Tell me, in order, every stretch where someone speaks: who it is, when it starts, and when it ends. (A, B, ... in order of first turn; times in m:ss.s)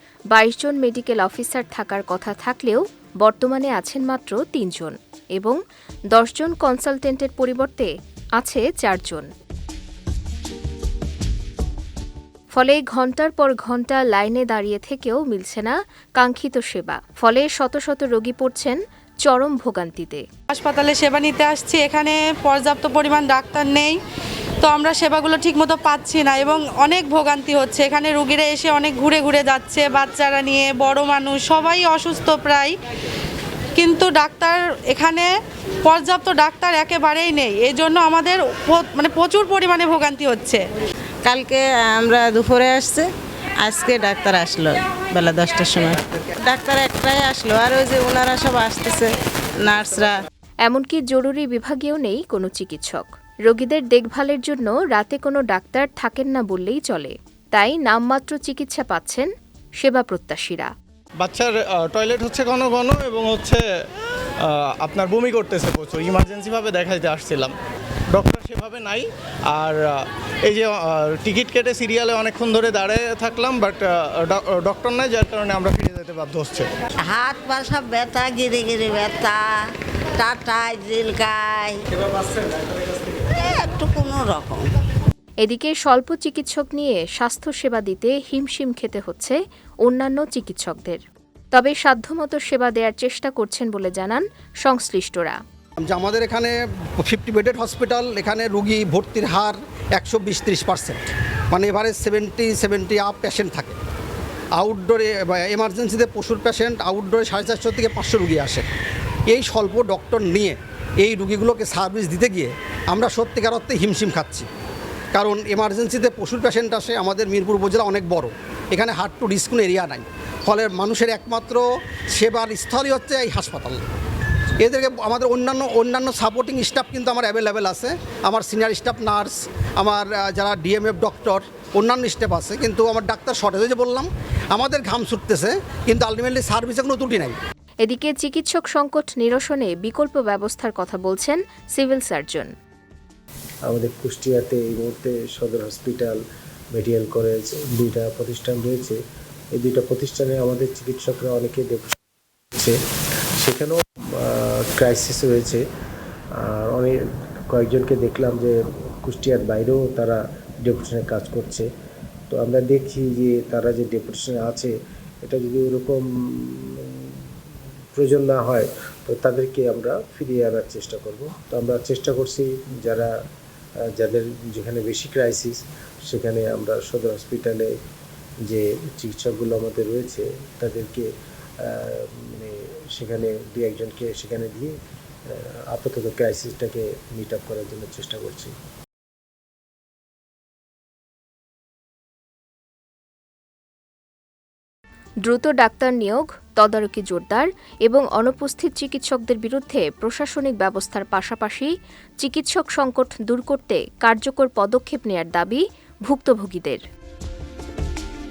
0:00.3-0:05.6 A
0:06.1-0:09.3 A
0:12.5-0:20.2 A
0:20.5-0:24.0 B
0:24.6-0:32.7 B
0:33.8-0:35.3 B
0:35.8-0:40.6 B
0:41.2-0:43.1 C
0:43.6-0:50.2 C
0:50.7-1:00.7 A
1:01.2-1:03.6 D
1:04.4-1:07.5 D
1:08.1-1:16.7 D
1:17.1-1:19.6 E
1:20.2-1:21.8 E
1:23.4-1:24.7 E
1:25.4-1:31.0 A
1:31.5-1:35.4 A
1:35.8-1:43.8 F
1:44.6-1:48.7 F
1:49.3-1:54.5 F
1:55.1-2:03.8 F
2:04.6-2:17.4 F
2:17.8-2:22.5 A
2:23.7-2:26.2 G
2:26.8-2:29.0 G
2:29.6-2:32.0 G
2:33.4-2:35.6 G
2:36.4-2:37.0 G
2:37.5-2:41.7 G
2:42.3-2:44.7 G
2:45.2-2:47.2 G
2:48.0-2:53.1 G
2:54.0-2:57.7 G
2:58.5-3:01.1 G
3:01.6-3:04.7 G
3:05.3-3:08.5 G
3:15.2-3:21.7 A
3:22.2-3:26.8 A